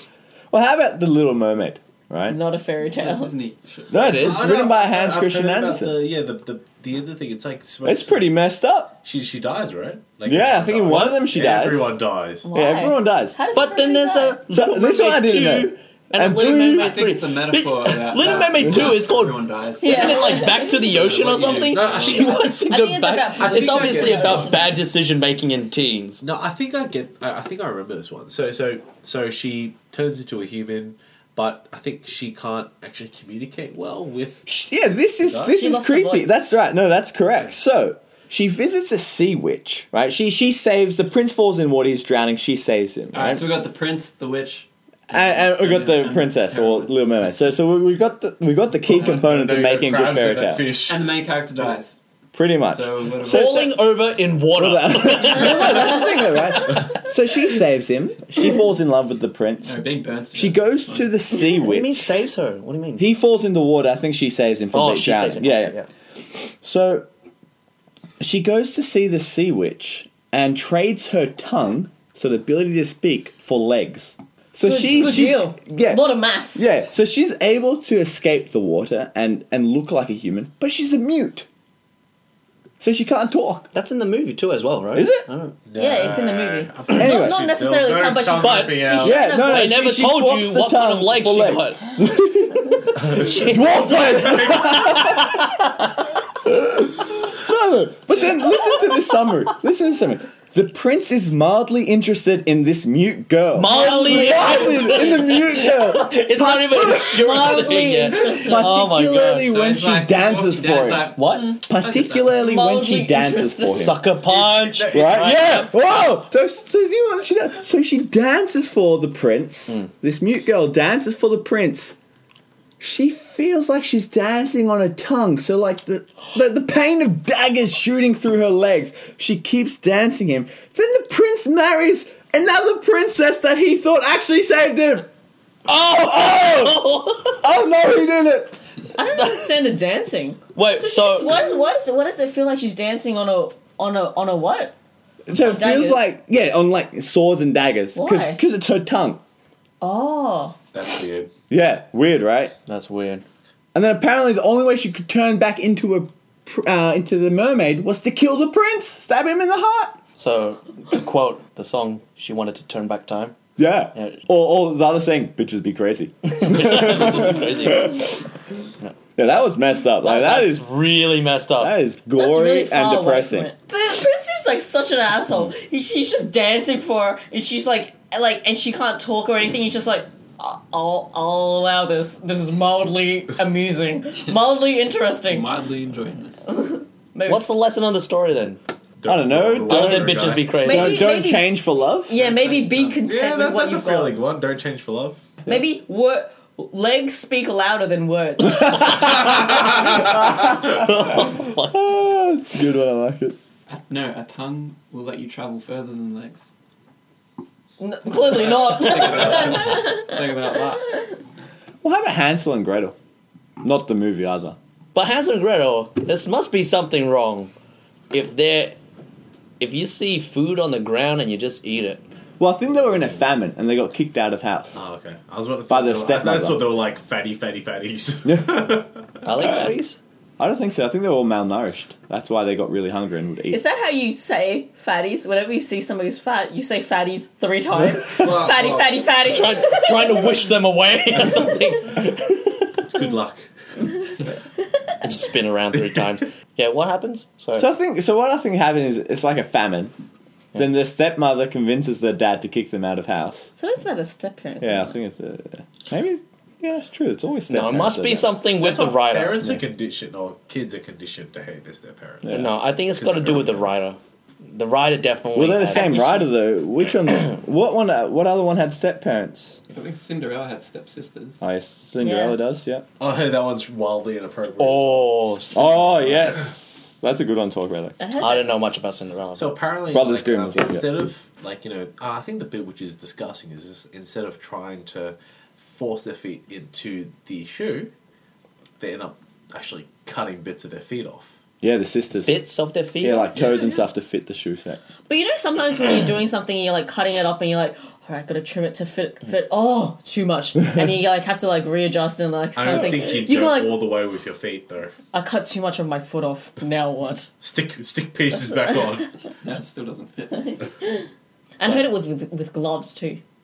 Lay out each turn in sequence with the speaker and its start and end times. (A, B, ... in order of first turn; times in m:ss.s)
0:00.5-0:02.4 A
0:02.3-0:03.3 B
0:02.9-0:04.2 C
0:03.9-0:06.0 A
0:03.9-0:04.4 D
0:04.0-0:08.3 E
0:07.8-0:09.0 A
0:09.0-0:12.5 E
0:10.2-0:11.9 A
0:12.4-0:14.4 B
0:12.5-0:13.4 A
0:13.5-0:26.2 D
0:14.5-0:17.0 A
0:16.6-0:22.4 C
0:18.6-0:18.9 A
0:19.8-0:20.9 B
0:21.1-0:22.5 E
0:22.4-0:24.7 B
0:23.4-0:24.6 E
0:26.2-0:34.5 E
0:34.5-0:43.4 A
0:35.2-0:35.6 E
0:35.5-0:36.4 B
0:43.1-0:46.9 C
0:45.1-0:50.7 A
0:48.9-0:49.3 C
0:48.9-0:51.8 E
0:50.8-0:52.0 C
0:52.3-0:53.4 A
0:52.6-0:53.8 C
0:53.2-0:56.2 D
0:54.5-0:59.8 A
0:59.6-1:01.2 C
1:00.3-1:02.0 A
1:01.4-1:03.1 D
1:03.0-1:05.8 A
1:04.7-1:05.9 D
1:06.6-1:07.1 A
1:08.2-1:21.4 A
1:14.6-1:16.6 B
1:22.8-1:23.7 A
1:23.7-1:25.6 D
1:24.9-1:25.2 A
1:25.6-1:29.2 E
1:25.8-1:29.8 B
1:26.9-1:27.4 A
1:28.4-1:32.0 D
1:29.0-1:35.5 A
1:32.9-1:35.8 D
1:33.1-1:34.7 E
1:36.4-1:51.1 A
1:43.5-1:49.5 D
1:43.6-1:45.4 B
1:46.7-1:48.8 B
1:49.2-1:52.4 C
1:51.2-1:51.5 D
1:51.7-1:54.0 A
1:52.3-1:53.9 B
1:53.7-1:55.7 D
1:54.3-1:55.7 E
1:54.9-2:01.9 A
2:02.8-2:15.1 A
2:15.7-2:16.8 A
2:15.7-2:17.5 D
2:17.4-2:18.6 A
2:18.9-2:24.7 B
2:19.2-2:19.5 D
2:20.5-2:21.4 D
2:25.3-2:29.2 A
2:25.3-2:26.1 B
2:27.9-2:28.4 B
2:29.8-2:30.6 B
2:30.7-2:31.3 E
2:31.5-2:32.5 A
2:32.7-2:33.2 D
2:33.7-2:40.0 A
2:40.2-2:43.4 D
2:43.6-2:48.1 A
2:43.9-2:44.2 D
2:46.2-2:48.1 D
2:49.2-2:50.7 A
2:50.0-2:51.7 D
2:51.6-2:53.5 A
2:52.2-3:05.5 B
3:05.3-3:06.5 C
3:06.5-3:07.4 B
3:07.3-3:08.6 D
3:09.0-3:10.6 E
3:09.0-3:12.1 A
3:09.6-3:11.0 D
3:10.6-3:14.2 B
3:12.1-3:13.0 C
3:13.0-3:15.2 E
3:15.4-3:19.2 B
3:19.0-3:21.9 D
3:19.8-3:23.4 A
3:23.7-3:26.5 C
3:27.8-3:30.2 B
3:28.2-3:31.0 C
3:28.9-3:29.2 D
3:31.8-3:32.9 A
3:33.6-3:34.6 A
3:34.9-3:37.5 D
3:38.1-3:38.8 D
3:39.6-3:42.0 D
3:42.4-3:44.8 A
3:44.7-3:49.0 E
3:45.7-3:46.7 A
3:49.2-3:50.0 D
3:50.4-3:53.6 A
3:53.5-4:00.4 B
3:58.2-3:58.9 E
3:59.2-4:02.8 D
4:02.8-4:03.5 E
4:05.0-4:07.7 D
4:07.5-4:09.9 A
4:10.5-4:13.5 A
4:13.6-4:15.0 B
4:14.6-4:18.3 A
4:17.5-4:19.4 D
4:18.6-4:23.8 E
4:22.2-4:22.5 A
4:22.3-4:26.3 D
4:25.3-4:29.6 A
4:29.7-4:31.4 C
4:31.4-4:32.8 A
4:32.0-4:32.4 B
4:33.0-4:35.2 E
4:34.6-4:35.8 D
4:35.5-4:38.0 A
4:36.0-4:36.3 E
4:38.0-4:38.5 B
4:38.2-4:39.5 D
4:39.3-4:47.9 E
4:39.9-4:40.9 A
4:48.8-4:51.4 E
4:51.6-4:52.4 A
4:52.2-4:53.6 D
4:53.0-4:54.8 A
4:55.1-5:03.9 B
5:02.6-5:04.9 E
5:05.1-5:07.3 B
5:07.4-5:09.1 E
5:09.4-5:10.6 C
5:10.3-5:11.1 B
5:11.6-5:13.2 B